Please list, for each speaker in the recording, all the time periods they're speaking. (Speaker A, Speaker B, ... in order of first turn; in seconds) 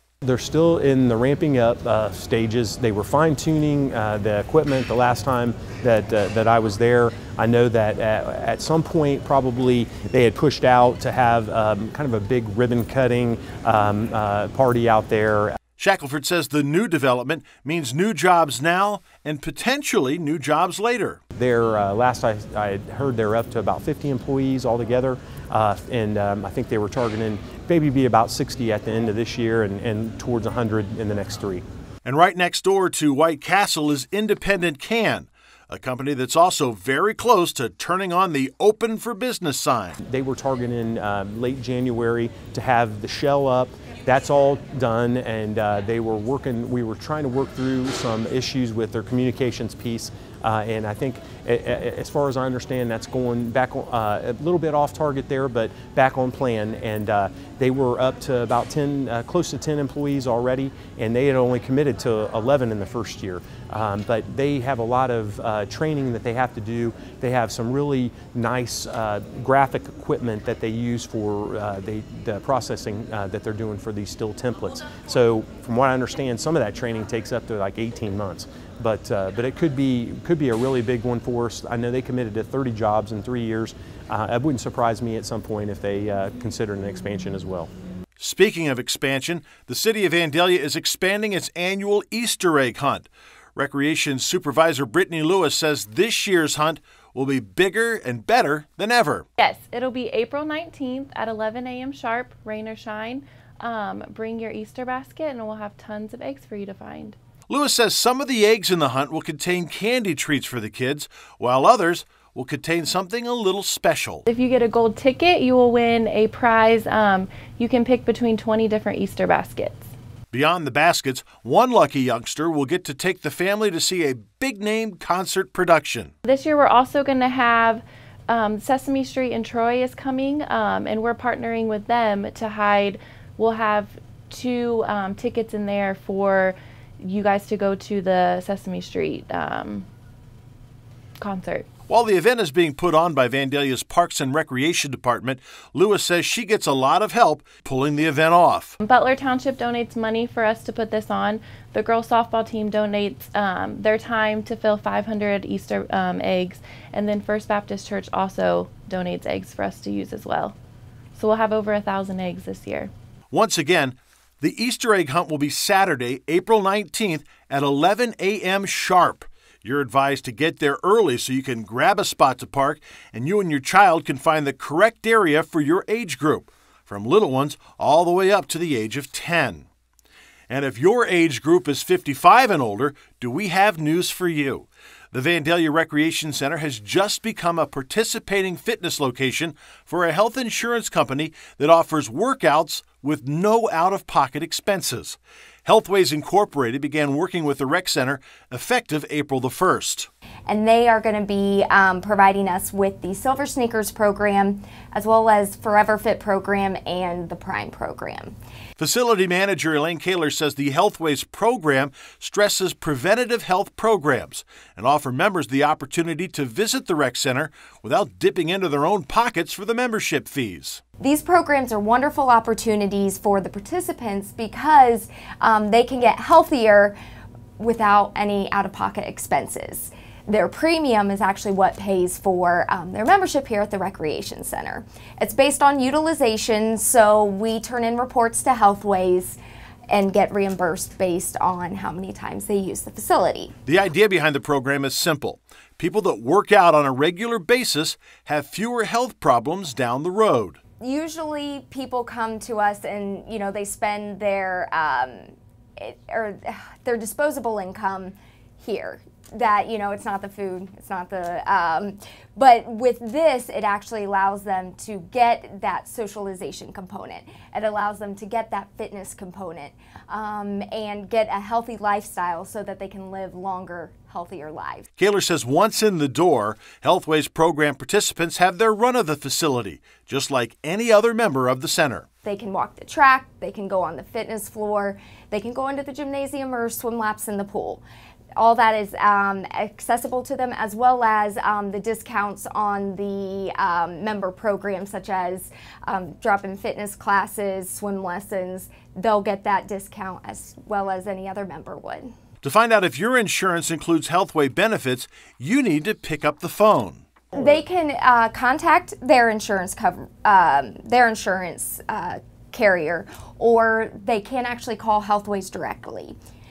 Speaker A: 0.2-15.6, 21.4-31.6, 40.0-87.7
Speaker B: 15.8-21.2, 32.0-40.0, 88.2-99.3, 107.5-114.2, 120.3-126.1, 141.9-148.8, 163.3-179.7, 180.5-200.1, 208.8-220.8, 243.7-250.6, 275.0-282.1, 302.4-307.1
Speaker C: 99.4-107.2, 114.3-119.9, 126.2-139.9, 141.2-141.7, 148.8-160.6, 161.2-162.9
Speaker D: 200.5-208.4, 221.0-227.0, 227.6-239.4, 239.9-243.5, 250.8-274.9, 282.2-287.8, 288.4-302.1, 307.3-316.2